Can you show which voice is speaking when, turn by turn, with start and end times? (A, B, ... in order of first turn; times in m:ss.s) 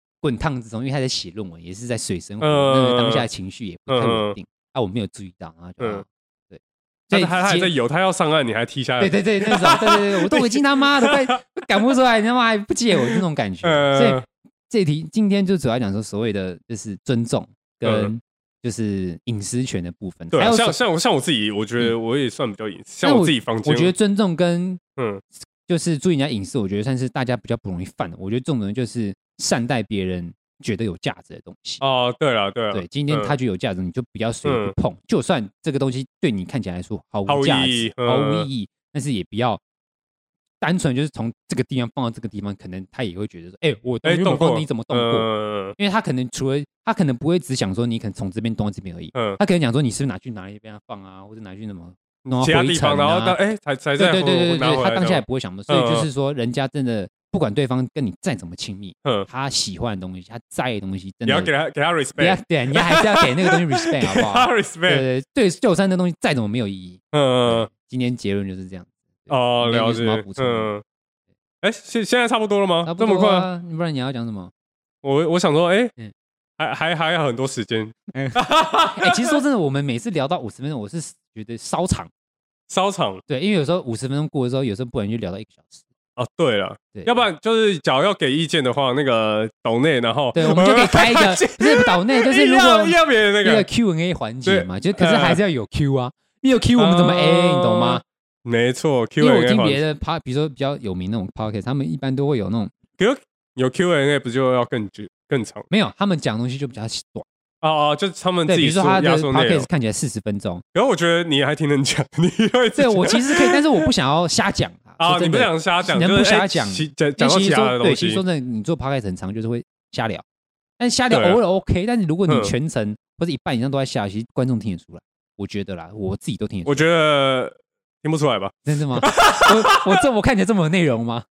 0:00.2-0:07.7 A
0:02.4-0:03.3 B
0:03.9-0:04.4 B
0:07.1-0:11.4 B
0:09.0-0:20.8 A
0:13.0-0:14.2 B
0:17.8-0:18.1 B
0:20.3-0:23.9 B
0:23.0-0:24.8 A
0:25.0-0:25.2 B
0:25.7-0:31.8 A
0:31.8-0:33.3 B
0:32.7-0:39.6 A
0:34.4-0:34.7 B
0:37.3-0:38.5 B
0:40.6-0:53.4 A
0:44.0-0:45.8 B
0:49.1-0:49.4 B
0:52.3-0:56.1 B
0:54.0-1:01.5 A
1:01.3-1:05.0 B
1:02.2-1:10.7 A
1:07.1-1:07.7 B
1:09.3-1:10.8 B
1:11.6-1:13.5 B
1:12.8-1:14.5 A
1:15.0-1:15.9 B
1:16.6-1:19.3 B
1:18.1-1:18.4 A
1:19.0-1:22.1 A
1:22.7-1:23.2 B
1:23.3-1:25.9 A
1:26.2-1:33.7 B
1:26.9-1:27.2 A
1:30.3-1:38.0 A
1:34.4-1:35.4 B
1:36.8-1:39.8 B
1:39.2-1:42.7 A
1:43.0-1:45.7 B
1:45.7-1:47.3 A
1:47.6-1:49.7 B
1:48.4-1:50.6 A
1:50.7-1:53.8 B
1:52.8-2:00.2 A
1:55.0-1:58.2 B
2:00.8-2:06.9 A
2:01.1-2:01.4 B
2:02.3-2:02.5 B
2:06.7-2:10.0 B
2:08.7-2:11.2 A